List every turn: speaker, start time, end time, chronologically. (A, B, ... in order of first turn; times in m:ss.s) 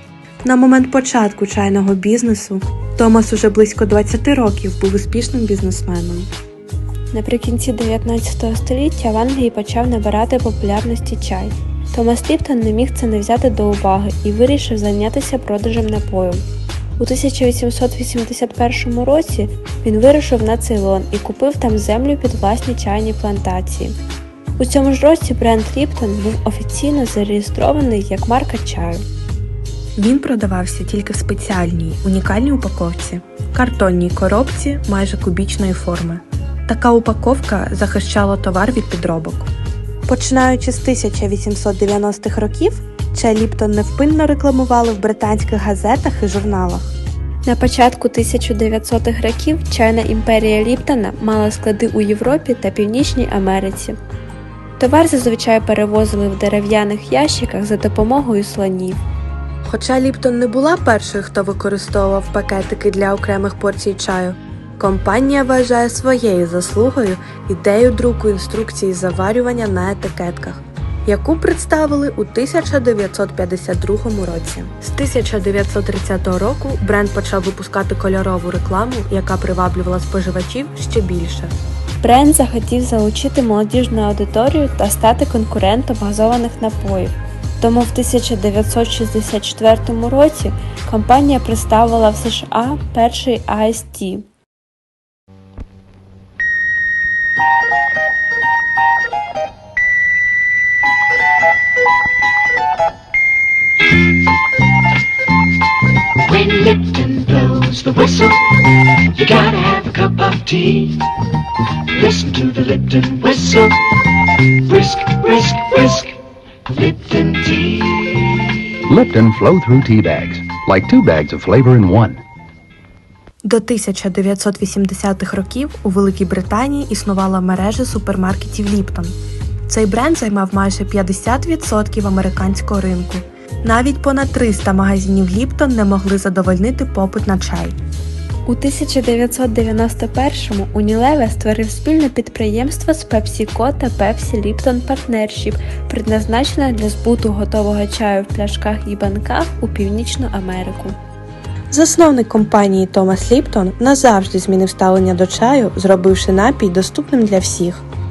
0:00.4-0:06.3 A
0:07.1-0:16.4 B
0:17.0-0:23.9 B
0:24.6-0:29.0 B
0:30.0-0:39.5 A
0:40.1-0:46.9 A
0:47.4-0:54.0 B
0:54.8-0:59.0 B
0:59.6-1:21.5 A
1:22.0-1:34.2 B
1:46.2-1:51.1 C
1:51.6-1:56.2 C
1:56.7-1:58.6 C
1:58.9-2:02.2 D
2:03.4-2:09.2 A
2:09.7-2:17.8 A
2:18.4-2:31.0 B
2:31.7-2:37.8 A